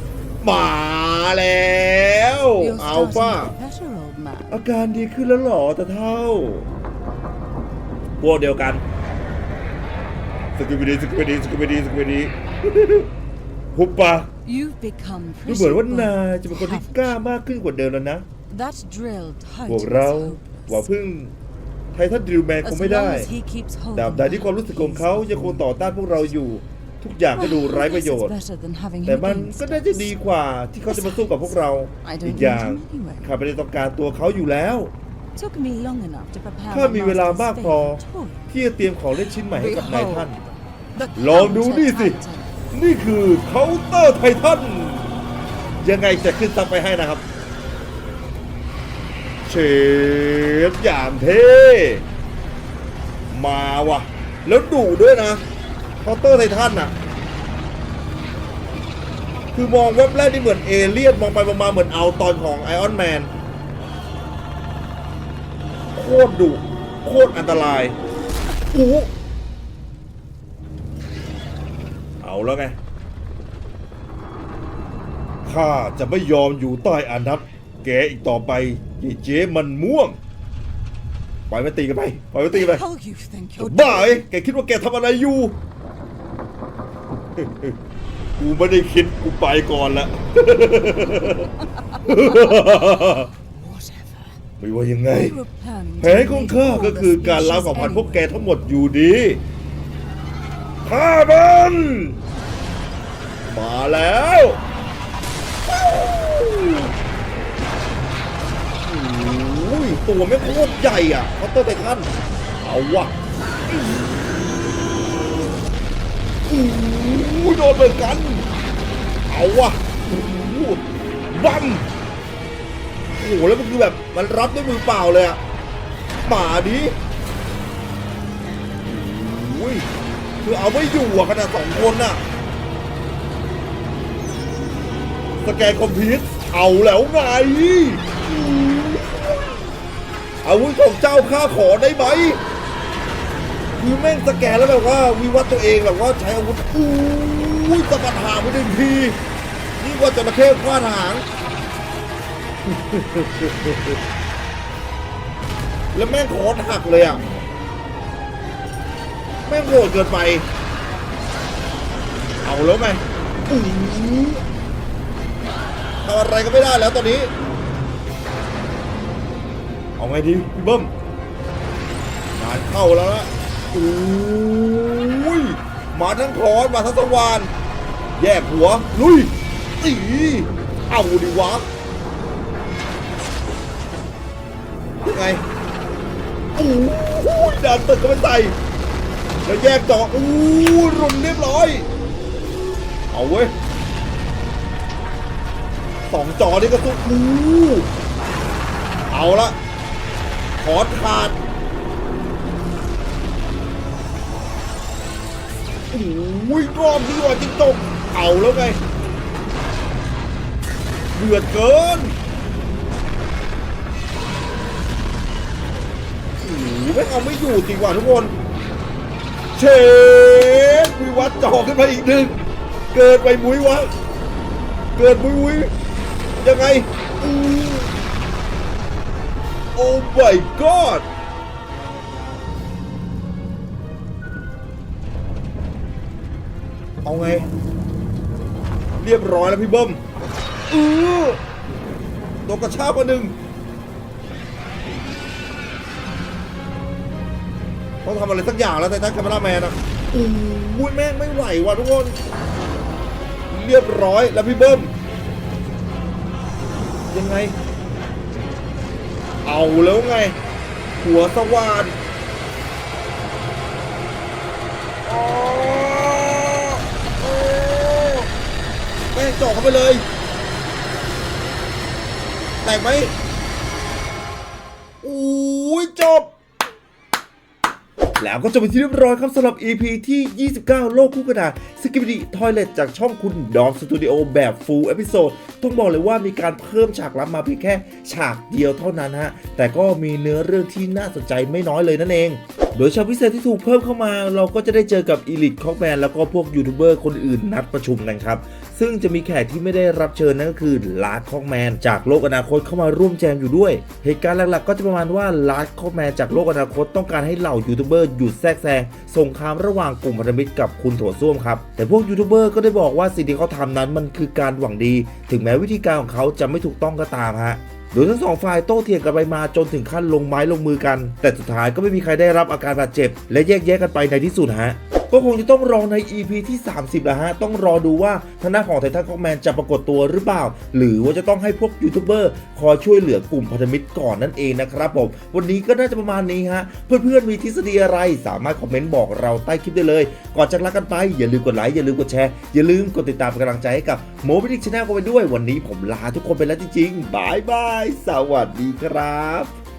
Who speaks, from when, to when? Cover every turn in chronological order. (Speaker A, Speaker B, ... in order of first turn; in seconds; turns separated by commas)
Speaker A: 0.4-3.5, Speaker B: 2.6-4.6, Speaker A: 4.5-6.7, Speaker A: 8.2-8.8, Speaker A: 10.6-13.1, Speaker A: 13.7-14.3, Speaker B: 14.4-17.2, Speaker A: 15.4-18.2, Speaker B: 18.5-20.9, Speaker A: 19.7-21.3, Speaker A: 21.9-23.3, Speaker B: 22.6-25.8, Speaker A: 23.9-28.3, Speaker B: 27.4-30.4, Speaker A: 29.0-34.9, Speaker B: 30.9-33.4, Speaker B: 35.3-38.4, Speaker A: 36.7-40.4, Speaker B: 39.5-42.5, Speaker A: 41.1-42.2, Speaker A: 42.7-45.1, Speaker A: 45.8-47.2, Speaker A: 49.4-52.0, Speaker A: 53.3-55.4, Speaker A: 56.0-56.9, Speaker A: 59.5-63.3, Speaker A: 65.9-68.0, Speaker A: 68.7-69.1, Speaker A: 72.2-72.8, Speaker A: 75.4-80.2, Speaker A: 81.5-82.8, Speaker B: 82.5-84.2, Speaker A: 83.6-85.6, Speaker A: 87.4-87.8, Speaker A: 88.4-93.3, Speaker B: 90.9-94.3, Speaker A: 94.6-95.4, Speaker B: 95.0-98.3, Speaker A: 96.0-99.4, Speaker A: 100.8-102.2, Speaker A: 103.5-104.6, Speaker A: 105.7-106.9, Speaker A: 108.8-113.1, Speaker A: 116.5-118.5, Speaker A: 119.3-121.9, Speaker A: 123.2-125.4, Speaker A: 126.2-126.9, Speaker A: 128.8-129.8, Speaker A: 130.4-132.2, Speaker A: 135.4-139.5, Speaker A: 140.4-142.4, Speaker A: 143.8-149.2, Speaker A: 149.8-151.2, Speaker A: 152.7-153.9, Speaker A: 155.9-157.2, Speaker A: 159.4-160.5, Speaker A: 162.4-164.4, Speaker A: 166.0-167.3, Speaker A: 170.0-170.9, Speaker A: 172.3-177.5, Speaker A: 178.2-181.7, Speaker A: 185.0-185.4, Speaker A: 186.6-188.6, Speaker A: 189.4-191.8, Speaker A: 193.1-193.5, Speaker A: 196.1-197.9, Speaker A: 199.1-199.6, Speaker A: 200.6-201.4, Speaker A: 205.9-208.8, Speaker A: 211.1-212.2, Speaker A: 216.4-218.3, Speaker A: 219.5-222.4, Speaker A: 222.9-223.9, Speaker A: 224.9-225.7, Speaker A: 226.3-227.9, Speaker A: 229.7-231.1, Speaker A: 237.0-237.5, Speaker A: 239.0-240.0, Speaker A: 240.7-241.4, Speaker A: 242.4-243.3, Speaker A: 248.0-252.2, Speaker A: 253.5-254.9, Speaker A: 257.1-257.6, Speaker A: 259.4-260.4, Speaker A: 261.0-262.0, Speaker A: 265.0-268.3, Speaker A: 269.1-270.1, Speaker A: 272.6-273.1, Speaker A: 275.0-276.3, Speaker A: 278.2-349.5